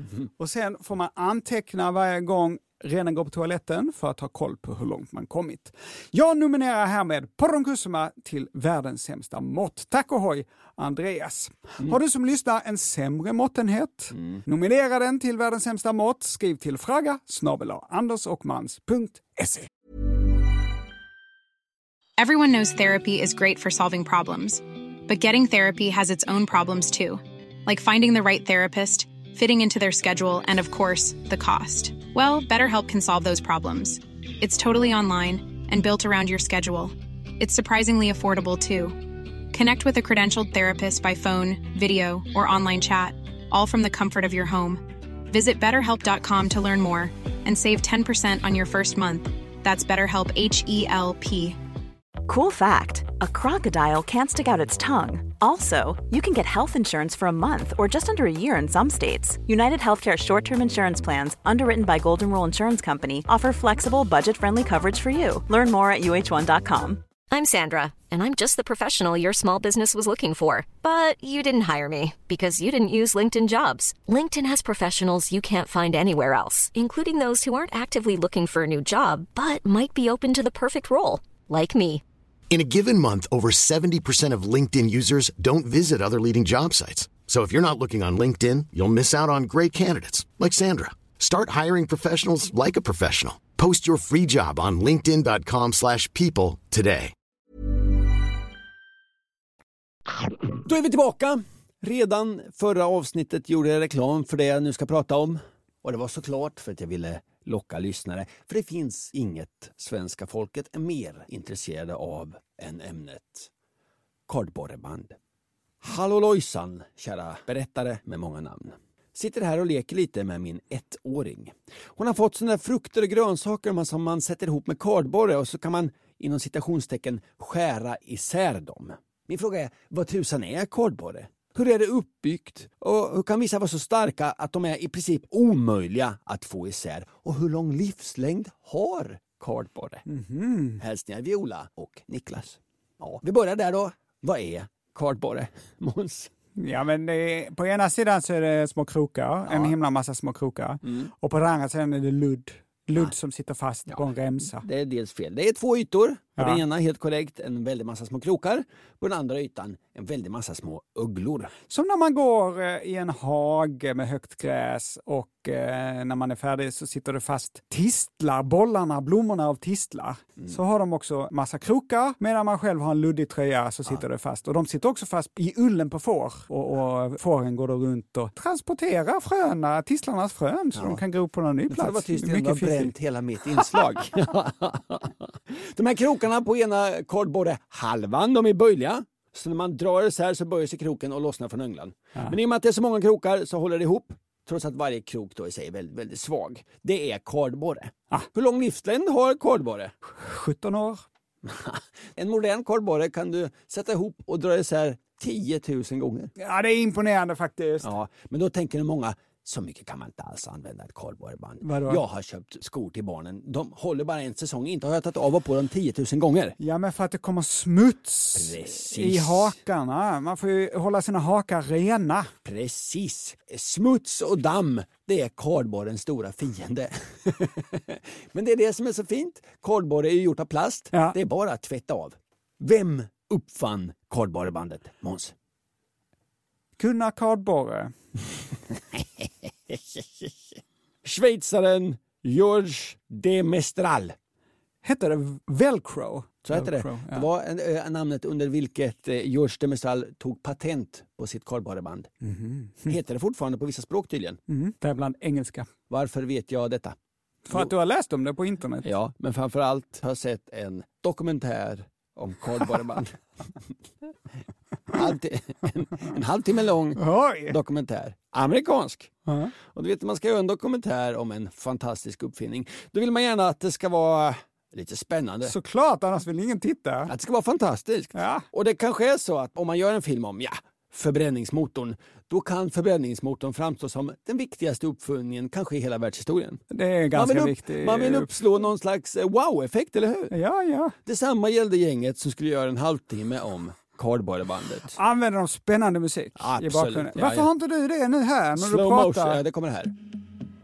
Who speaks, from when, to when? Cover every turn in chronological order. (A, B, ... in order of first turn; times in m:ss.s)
0:00.4-0:19.7 A
0:22.2-0:51.6 B
0:52.2-1:07.0 C
1:07.3-1:22.0 D
1:22.5-1:37.1 E
1:40.6-1:53.5 F
1:54.3-1:55.2 F
1:55.8-2:20.0 F
2:20.1-2:20.8 A
2:20.8-2:26.3 F
2:26.6-2:34.6 A
2:29.5-2:29.7 F
2:34.6-2:41.5 F
2:36.4-2:36.6 A
2:41.7-3:02.9 A
3:00.7-3:01.0 F
3:01.7-3:19.9 F
3:20.1-3:21.0 A
3:21.4-3:26.3 F
3:26.4-3:27.9 A
3:27.8-3:36.6 F
3:31.6-3:32.0 A
3:36.6-3:42.3 A
3:38.3-3:39.6 F
3:42.4-3:55.3 F
3:50.9-3:51.2 A
3:56.8-3:57.9 A
3:59.0-4:00.3 F
4:01.0-4:04.2 F
4:04.8-4:07.2 A
4:06.4-4:12.1 F
4:12.2-4:12.9 A
4:12.9-4:14.4 F
4:14.5-4:15.7 A
4:15.9-4:17.0 F
4:17.5-4:18.9 A
4:18.8-4:23.2 F
4:24.9-4:29.1 F
4:27.0-4:27.6 A
4:29.2-4:29.5 A
4:29.7-4:35.5 F
4:35.4-4:37.1 A
4:37.1-4:46.6 F
4:38.1-4:38.4 A
4:46.7-4:48.3 A
4:47.1-4:50.3 F
4:50.3-4:50.9 A
4:51.0-4:55.0 F
4:55.0-4:59.4 A
4:56.4-4:57.5 F
4:58.6-4:59.9 F